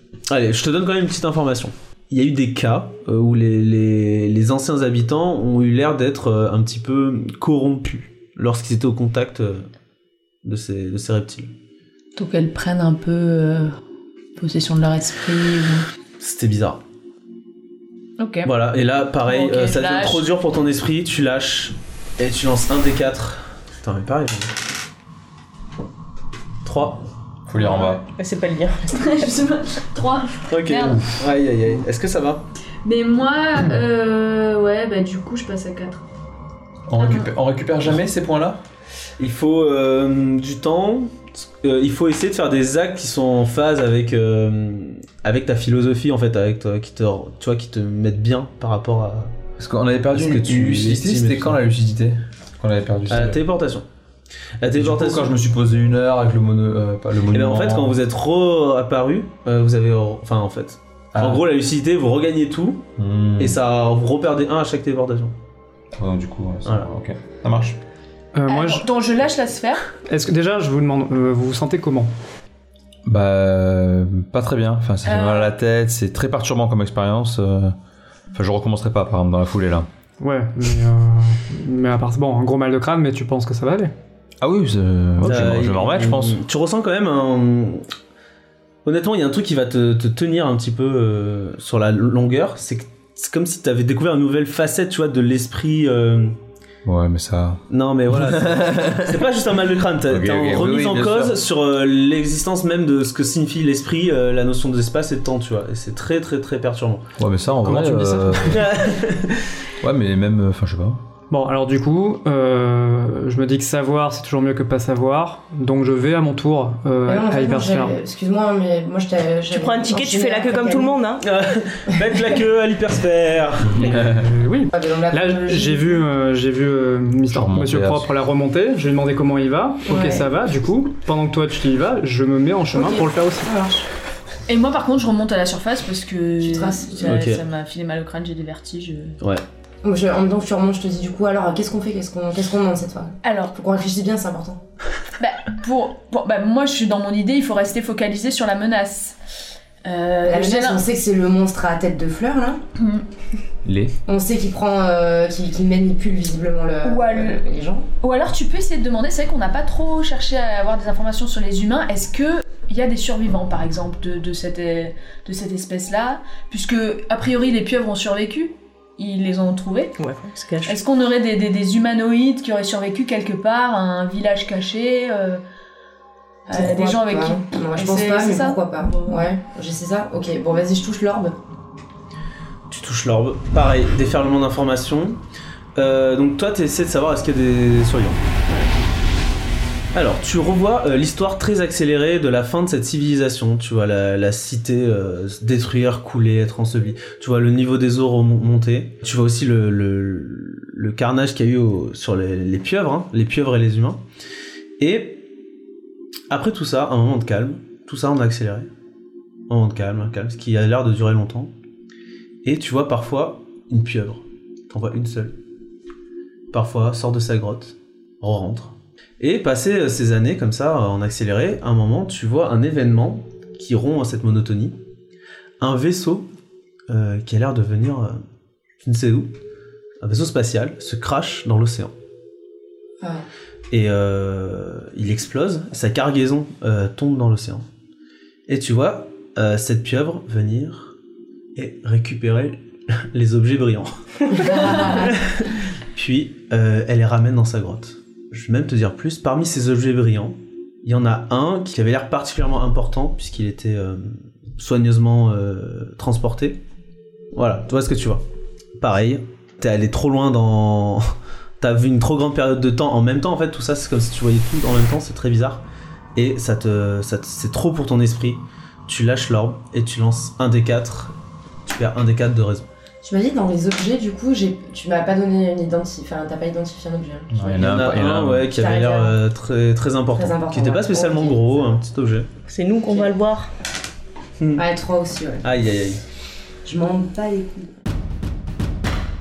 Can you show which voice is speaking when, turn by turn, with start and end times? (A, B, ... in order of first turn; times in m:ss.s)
0:00.3-0:09.7 A
0:10.4-0:11.5 A
0:12.2-0:13.8 B
0:14.4-0:15.8 B
0:16.2-0:16.8 A
0:18.2-0:18.5 B
0:18.4-0:24.6 A
0:19.2-0:20.3 B
0:26.6-0:27.0 A
0:27.5-0:28.0 C
0:27.6-0:27.9 B
0:27.8-0:29.3 D
0:28.9-0:31.2 B
0:30.5-0:32.4 A
0:32.8-0:36.0 B
0:36.9-0:38.6 C
0:37.0-0:37.3 B
0:39.2-0:49.3 A
0:49.6-0:53.4 C
0:50.1-0:51.6 A
0:53.1-0:53.8 A
0:54.6-0:55.4 A
0:54.8-0:58.0 C
0:57.3-1:05.3 A
1:01.1-1:01.4 C
1:03.0-1:03.6 C
1:06.0-1:07.8 C
1:08.3-1:08.9 E
1:08.5-1:09.8 B
1:10.0-1:12.1 E
1:13.0-1:17.7 C
1:15.0-1:15.5 B
1:18.3-1:19.9 C
1:20.2-1:23.9 E
1:24.4-1:26.4 C
1:25.2-1:27.8 A
1:28.8-1:36.4 A
1:36.8-1:37.6 C
1:37.7-1:47.1 A
1:38.1-1:39.1 C
1:40.1-1:41.4 C
1:47.2-1:48.8 C
1:47.6-1:48.6 E
1:48.5-1:49.5 A
1:49.8-1:51.0 C
1:51.3-1:58.0 E
1:57.0-2:01.0 F
1:59.5-2:01.2 D
2:01.2-2:04.0 A
2:03.8-2:04.2 C
2:03.9-2:13.5 E
2:04.7-2:06.0 F
2:07.3-2:08.1 C
2:09.8-2:10.3 F
2:12.7-2:13.8 F
2:14.5-2:19.2 B
2:16.4-2:17.1 F
2:17.0-2:17.4 A
2:19.8-2:24.6 F
2:23.2-2:23.5 B
2:25.2-2:29.2 B
2:29.8-2:30.8 B
2:30.2-2:32.6 F
2:32.8-2:33.0 B
2:33.6-2:34.0 C
2:34.0-2:37.9 F
2:36.8-2:37.4 B
2:38.0-2:49.9 B
2:50.0-2:50.8 D
2:50.6-2:55.4 B
2:56.5-2:59.3 B
2:56.5-3:01.4 F
3:02.7-3:05.2 A
3:05.8-3:08.2 A
3:09.9-3:24.0 A
3:24.8-3:25.3 A
3:26.3-3:28.7 A
3:29.5-3:31.5 A
3:32.4-3:35.4 A
3:36.5-3:44.8 A
3:45.6-3:46.3 A
3:46.9-3:48.2 A
3:48.8-3:49.3 A
3:50.0-3:51.9 A
3:53.0-3:53.2 F
3:53.7-3:57.6 A
3:58.5-4:00.9 A
4:01.5-4:16.6 A
4:04.3-4:05.2 F
4:04.4-4:05.0 B
4:17.3-4:18.2 A
4:18.8-4:25.6 A
4:26.2-4:31.1 A
4:31.6-4:32.7 A
4:33.0-4:37.8 F
4:37.3-4:38.5 C
4:37.6-4:42.3 A
4:38.5-4:39.2 F
4:40.2-4:41.8 F
4:42.5-4:43.5 D
4:44.6-4:45.4 F
4:45.4-4:46.0 A
4:46.6-4:47.7 F